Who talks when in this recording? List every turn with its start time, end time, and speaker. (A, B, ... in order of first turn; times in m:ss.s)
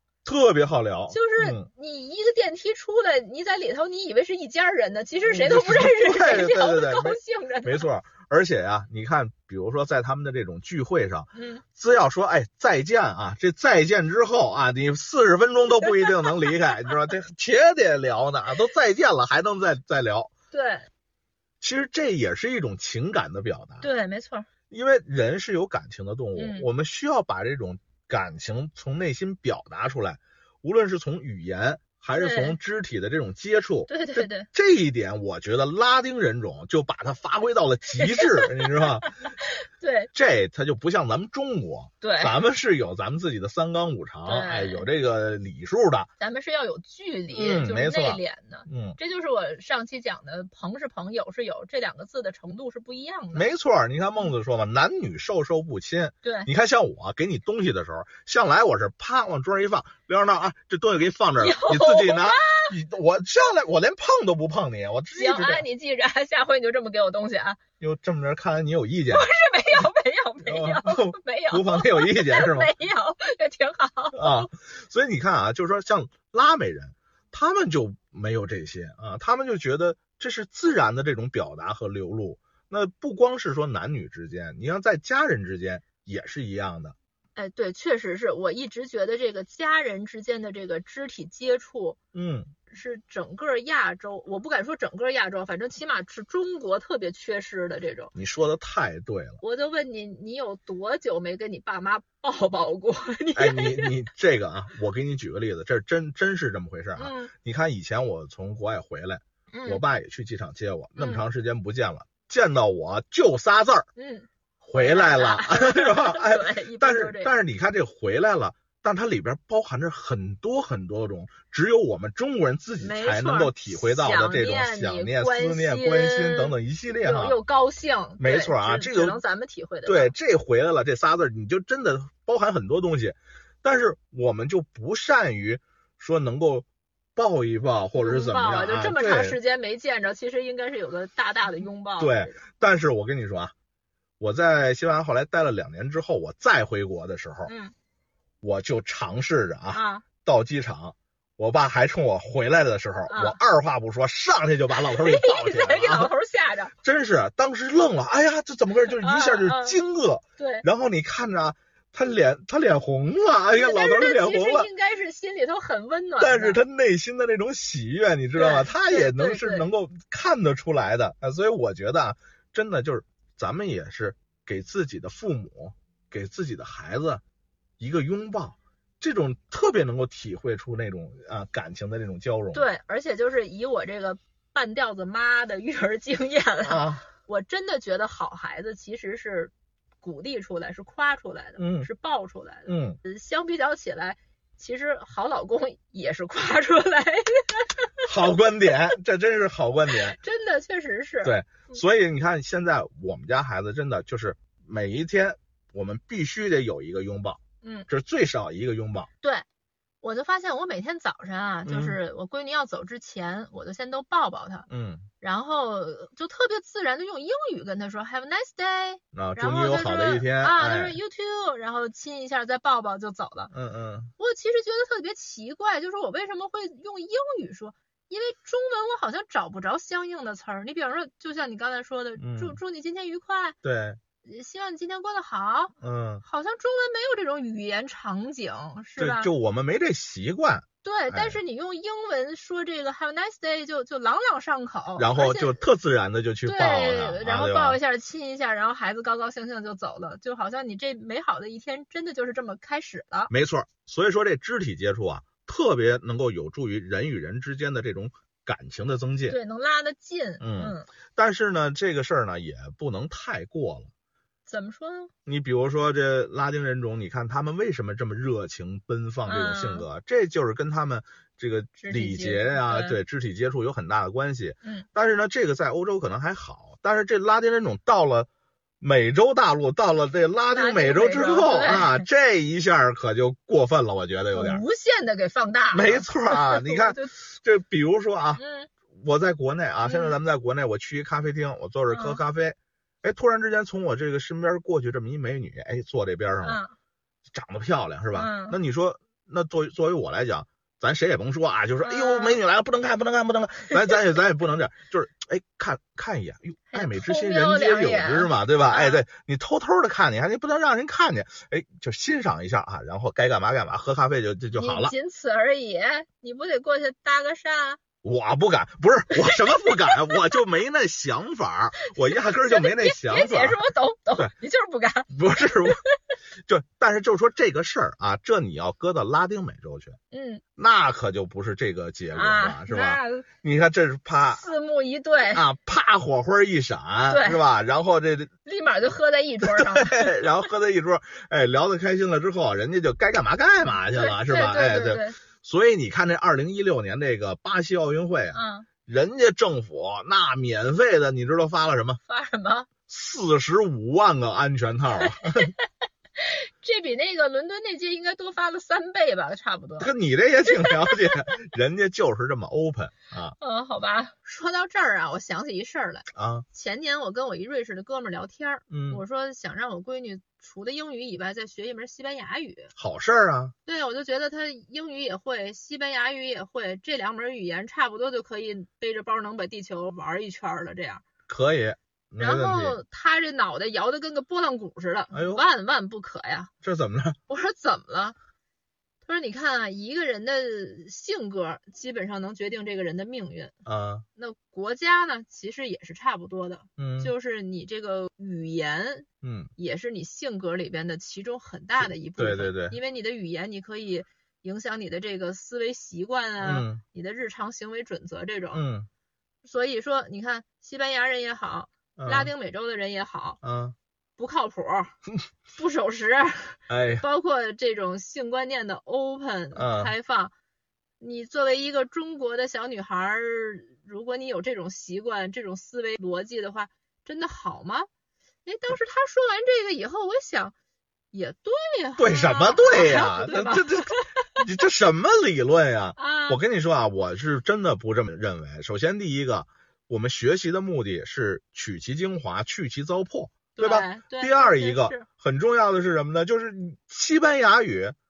0:00.2-0:01.7 A
0:01.1-0:07.9 B
0:05.3-0:20.3 A
0:11.3-0:11.6 B
0:20.5-0:20.9 B
0:21.6-0:23.9 A
0:23.8-0:24.5 B
0:24.7-0:39.1 A
0:26.4-0:26.7 B
0:32.2-0:32.6 B
0:33.9-0:34.5 B
0:38.0-0:38.4 B
0:39.8-0:40.1 B
0:40.1-0:46.1 A
0:42.0-0:42.4 B
0:44.2-0:44.9 B
0:46.2-0:53.5 B
0:47.3-0:49.0 A
0:53.3-1:05.7 A
0:56.2-0:56.5 B
1:01.4-1:02.7 B
1:05.1-1:07.6 B
1:07.8-1:09.3 A
1:09.1-1:14.5 B
1:10.4-1:12.7 A
1:14.1-1:27.0 A
1:27.4-1:32.0 B
1:32.1-1:32.5 A
1:32.7-1:38.1 B
1:38.2-1:39.4 A
1:39.4-1:44.0 B
1:43.4-1:53.9 A
1:47.0-1:47.3 B
1:49.5-1:49.8 B
1:51.0-1:51.2 B
1:54.0-1:57.3 B
1:54.6-2:07.4 A
2:02.8-2:10.2 B
2:08.2-2:09.2 A
2:09.9-2:19.4 A
2:18.0-2:22.4 B
2:22.0-2:23.5 A
2:24.2-2:27.5 A
2:27.5-2:27.7 B
2:28.4-2:36.1 A
2:29.7-2:30.0 B
2:33.1-2:33.4 B
2:34.8-2:36.7 B
2:36.8-2:44.7 A
2:39.0-2:39.8 B
2:40.4-2:40.7 B
2:43.5-2:46.6 B
2:46.2-2:57.2 A
2:48.3-2:49.7 B
2:57.8-3:02.7 A
3:02.5-3:18.1 B
3:06.6-3:07.0 A
3:11.6-3:11.9 A
3:12.7-3:13.0 A
3:18.1-3:20.2 A
3:19.9-3:21.8 B
3:21.2-3:29.1 A
3:27.6-3:27.9 B
3:29.2-3:29.5 B
3:30.0-3:34.7 B
3:31.7-3:32.0 A
3:34.7-3:35.1 A
3:35.2-3:43.5 B
3:39.1-3:41.0 A
3:43.5-3:44.1 A
3:44.2-3:53.6 B
3:52.2-3:52.6 A
3:53.6-3:54.0 A
3:54.2-3:59.3 B
3:55.8-3:56.2 A
3:59.0-4:01.4 A
4:00.8-4:05.6 B
4:05.0-4:07.8 A
4:06.4-4:13.3 B
4:13.3-4:19.4 A
4:19.3-4:20.9 B
4:20.4-4:23.9 A
4:24.5-4:25.1 B
4:25.3-4:38.3 A
4:29.2-4:29.9 B
4:31.8-4:33.0 B
4:38.8-4:44.6 A
4:40.5-4:42.1 B
4:44.3-4:47.2 B
4:45.7-4:48.4 A
4:48.4-4:48.7 B
4:48.9-4:56.6 A
4:49.8-4:50.2 B
4:51.9-4:52.2 B
4:56.4-4:56.7 B
4:57.3-5:15.0 A
4:58.1-4:58.6 B
5:01.8-5:02.4 B
5:03.7-5:04.0 B
5:06.7-5:09.0 B
5:14.5-5:17.8 B
5:18.0-5:24.3 A
5:19.2-5:20.0 B
5:22.2-5:25.2 B
5:25.1-5:25.8 A
5:26.5-5:30.0 A
5:30.1-5:30.4 B
5:30.6-5:34.5 A
5:32.1-5:33.3 B
5:34.4-5:35.4 B
5:35.3-5:38.3 A
5:37.1-5:37.5 B
5:38.4-5:40.3 B
5:39.4-5:52.0 A
5:43.7-5:45.2 B
5:48.3-5:48.7 B
5:52.0-5:52.7 B
5:52.9-5:55.5 A
5:56.2-5:59.9 B
5:59.8-6:03.4 A
6:00.4-6:01.3 B
6:03.4-6:12.7 B
6:06.1-6:06.5 A
6:08.7-6:09.0 A
6:12.8-6:13.5 A
6:13.7-6:21.0 B
6:21.3-6:22.8 A
6:22.2-6:26.5 B
6:25.1-6:25.4 A
6:26.6-6:27.2 A
6:27.3-6:28.2 B
6:29.0-6:33.6 B
6:33.7-6:34.0 A
6:34.2-6:48.6 B
6:36.8-6:37.1 A
6:39.2-6:39.5 A
6:41.8-6:42.8 A
6:46.4-6:46.8 A
6:48.5-6:48.9 A
6:49.4-6:53.4 B
6:52.0-6:52.3 A
6:53.4-6:53.8 A
6:54.2-6:55.0 B
6:55.6-7:00.3 B
6:56.7-6:57.0 A
6:59.6-6:59.9 A
7:01.0-7:07.9 B
7:08.4-7:10.5 B
7:11.1-7:14.3 B
7:12.0-7:28.0 A
7:16.0-7:16.4 B
7:23.6-7:25.1 B